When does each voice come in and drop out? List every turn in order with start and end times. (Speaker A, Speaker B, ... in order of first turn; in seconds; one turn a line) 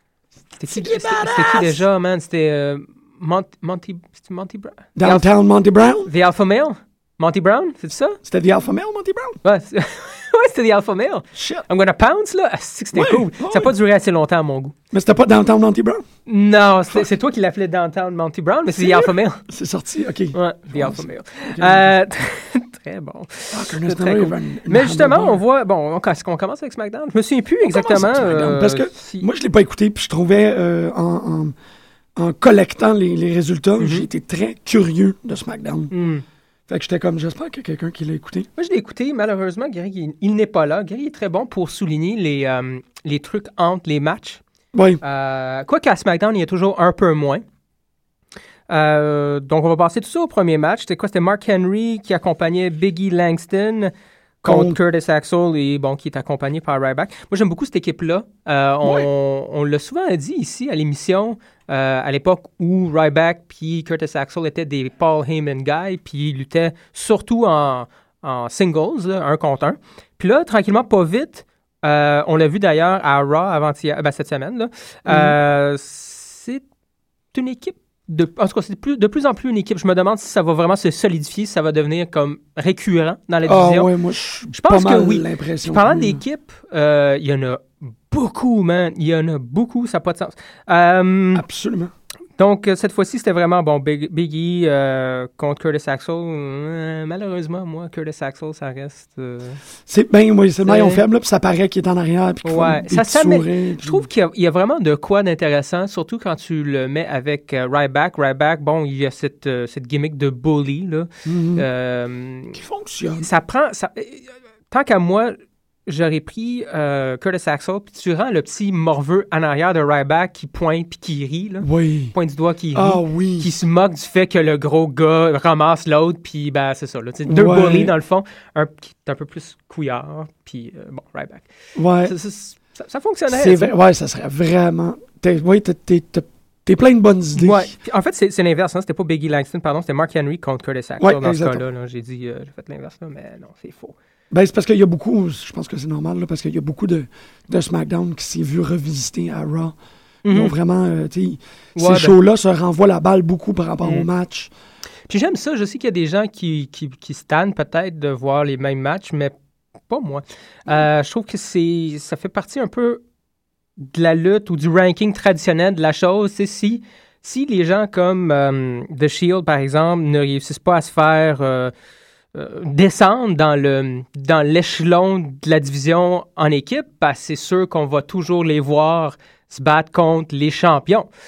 Speaker A: 0.6-5.3
Speaker B: 0.7-1.8
Speaker B: 5.0-6.1
Speaker A: 6.1-8.2
Speaker B: 8.2-9.4
Speaker A: 9.4-14.8
Speaker B: 11.3-11.7
Speaker B: 12.9-13.7
Speaker B: 14.9-16.1
Speaker A: 16.3-19.4
Speaker B: 18.7-21.9
Speaker A: 20.3-29.3
Speaker B: 23.5-25.4
Speaker B: 27.6-31.5
Speaker B: 32.2-35.9
Speaker A: 33.8-34.1
Speaker A: 35.9-36.2
Speaker B: 36.7-38.5
Speaker A: 38.6-44.4
Speaker B: 44.7-45.0
Speaker A: 45.0-47.5
Speaker A: 48.7-76.6
Speaker B: 54.4-54.8
Speaker B: 58.8-59.1
Speaker B: 75.1-75.4
Speaker A: 77.3-83.9
Speaker B: 83.4-86.2
Speaker A: 84.5-91.4
Speaker B: 91.3-91.9
Speaker A: 92.4-99.6
Speaker B: 99.9-104.1
Speaker A: 100.6-101.0
Speaker A: 102.4-112.6
Speaker B: 111.3-111.7
Speaker B: 112.5-113.3
Speaker A: 113.2-115.3
Speaker A: 115.9-131.5
Speaker B: 121.6-122.2
Speaker B: 122.7-123.6
Speaker B: 127.3-127.9
Speaker B: 131.8-132.2
Speaker A: 132.0-133.7
Speaker B: 133.3-137.8
Speaker A: 137.4-143.9
Speaker B: 141.0-141.6
Speaker B: 144.3-149.8
Speaker A: 150.2-150.5
Speaker B: 150.3-154.5
Speaker A: 151.8-152.2
Speaker A: 155.1-159.3
Speaker A: 159.9-163.0
Speaker A: 163.8-171.7
Speaker A: 172.3-181.1